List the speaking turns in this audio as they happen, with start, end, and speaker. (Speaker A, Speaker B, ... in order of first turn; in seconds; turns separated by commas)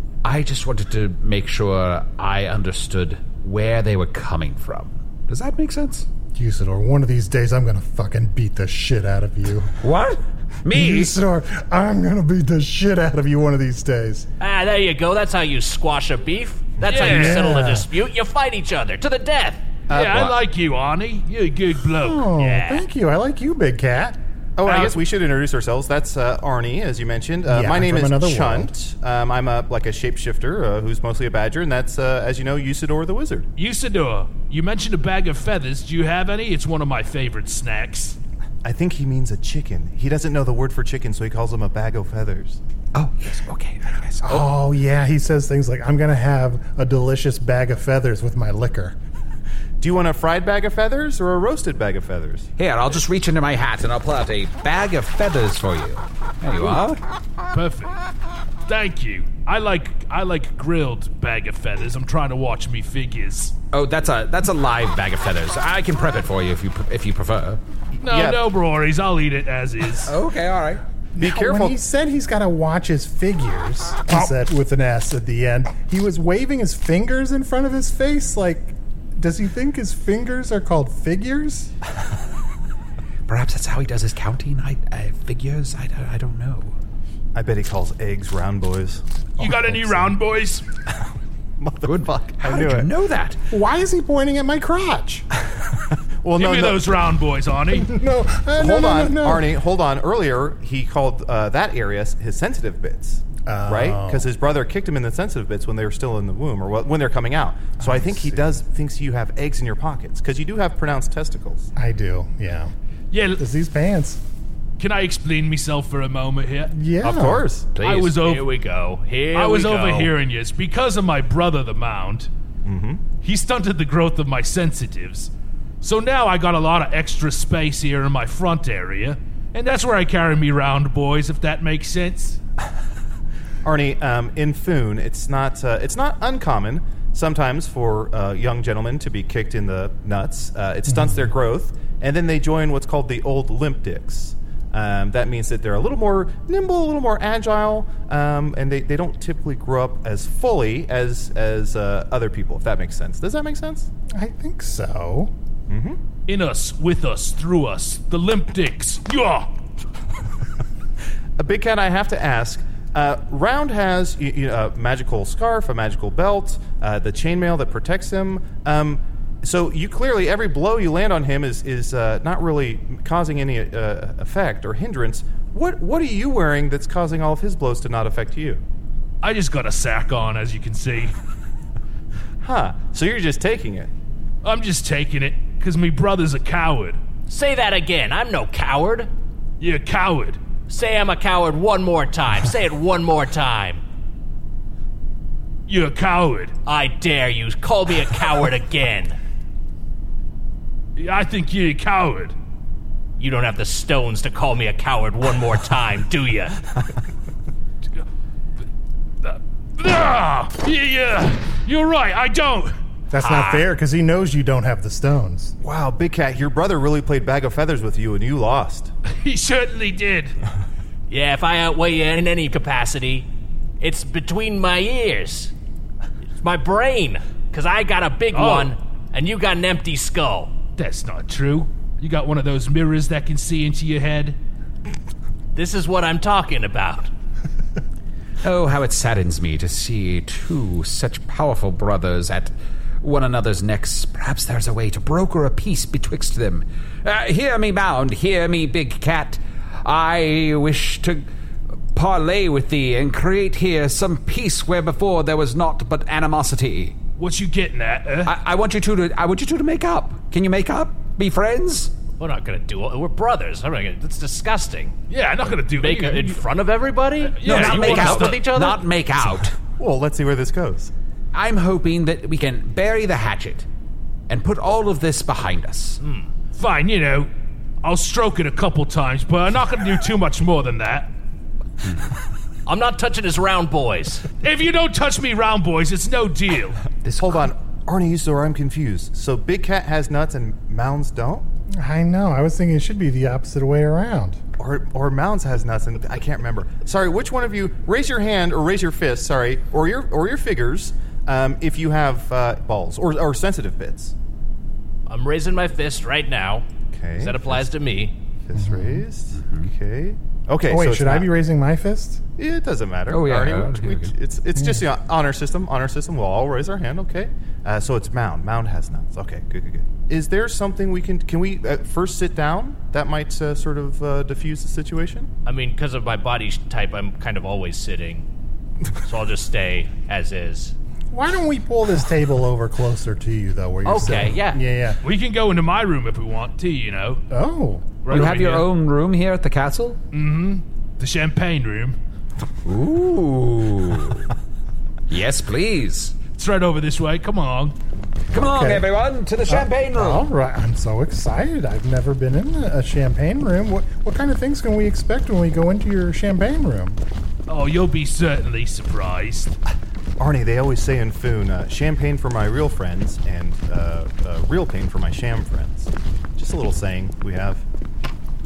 Speaker A: 0.2-6.1, Speaker B: 6.3-9.8, Speaker A: 9.8-11.1, Speaker B: 10.7-14.3, Speaker C: 14.4-19.6, Speaker D: 16.8-17.2, Speaker E: 16.8-17.5, Speaker B: 17.1-17.9, Speaker D: 19.9-20.4, Speaker E: 19.9-22.3, Speaker B: 22.0-24.2, Speaker C: 22.4-22.9, Speaker D: 24.6-33.5, Speaker E: 24.6-25.0, Speaker B: 27.5-28.7, Speaker E: 33.6-38.2, Speaker D: 38.6-42.6, Speaker A: 42.9-44.5, Speaker B: 44.2-49.0, Speaker D: 49.8-52.5, Speaker A: 52.6-57.0, Speaker E: 57.5-58.0, Speaker E: 58.7-63.5, Speaker A: 63.7-67.6, Speaker D: 67.9-68.4, Speaker E: 68.0-70.1, Speaker A: 70.1-70.8, Speaker B: 71.2-81.7, Speaker D: 71.2-71.8, Speaker A: 83.3-86.8, Speaker D: 87.3-89.0, Speaker B: 89.4-90.1, Speaker E: 89.4-90.6, Speaker D: 91.6-92.9, Speaker A: 91.8-93.4, Speaker B: 93.5-95.3, Speaker D: 96.2-96.9, Speaker E: 96.3-97.9, Speaker B: 97.7-99.5, Speaker D: 98.6-111.7, Speaker B: 103.5-104.3, Speaker B: 107.8-108.6, Speaker B: 111.8-112.7, Speaker E: 113.1-113.4, Speaker B: 113.4-114.2, Speaker E: 114.8-116.7, Speaker B: 116.7-117.5, Speaker D: 117.0-117.7, Speaker A: 117.8-118.2, Speaker E: 117.8-118.5, Speaker C: 118.2-120.1, Speaker E: 119.3-122.3, Speaker D: 122.7-123.0, Speaker E: 123.2-132.4, Speaker D: 133.6-153.9, Speaker B: 140.9-141.3, Speaker B: 154.1-155.3, Speaker D: 155.7-156.0, Speaker E: 156.3-159.5, Speaker D: 161.4-178.6, Speaker E: 179.2-181.2, Speaker D: 182.4-183.9, Speaker E: 184.4-187.0, Speaker C: 187.3-189.1, Speaker E: 189.6-190.4, Speaker C: 190.7-193.8, Speaker E: 195.7-196.5, Speaker C: 196.7-199.2, Speaker E: 201.0-202.3, Speaker C: 203.2-206.6, Speaker E: 209.2-212.8, Speaker B: 213.1-215.5, Speaker C: 213.2-213.6, Speaker D: 215.6-218.9, Speaker E: 219.1-220.4, Speaker C: 221.1-223.3, Speaker C: 223.8-225.5, Speaker C: 226.4-230.5, Speaker E: 228.3-228.8, Speaker E: 230.8-234.4, Speaker C: 235.6-237.1, Speaker A: 238.4-251.3, Speaker A: 251.9-256.9, Speaker E: 257.2-258.3, Speaker A: 258.3-261.9, Speaker C: 262.2-264.9, Speaker E: 265.1-266.4, Speaker C: 265.7-268.8, Speaker E: 267.3-268.4, Speaker A: 267.4-269.6, Speaker D: 269.8-270.9, Speaker A: 271.3-273.7, Speaker A: 274.3-276.0, Speaker C: 276.0-276.3, Speaker E: 276.6-277.3, Speaker E: 277.8-281.1, Speaker C: 282.7-284.3, Speaker E: 284.4-286.8, Speaker A: 287.1-287.5, Speaker D: 287.2-291.5, Speaker B: 291.7-294.4, Speaker D: 294.6-304.1, Speaker C: 305.1-308.1, Speaker D: 306.9-307.7, Speaker D: 308.4-311.3, Speaker B: 308.6-309.1, Speaker A: 309.3-309.7, Speaker B: 310.7-312.2, Speaker D: 312.4-325.3, Speaker A: 313.1-314.1, Speaker B: 314.6-314.9, Speaker C: 325.5-328.2, Speaker C: 329.1-330.7, Speaker B: 331.1-335.0, Speaker C: 333.9-334.6, Speaker E: 335.0-337.2, Speaker B: 337.3-337.9, Speaker E: 338.0-338.7, Speaker A: 338.1-340.0, Speaker E: 340.1-342.0, Speaker A: 342.6-344.3, Speaker A: 345.1-346.1, Speaker E: 346.4-347.8, Speaker A: 348.3-350.3, Speaker B: 348.4-348.9, Speaker B: 349.5-357.0, Speaker E: 357.5-359.6, Speaker D: 360.2-367.6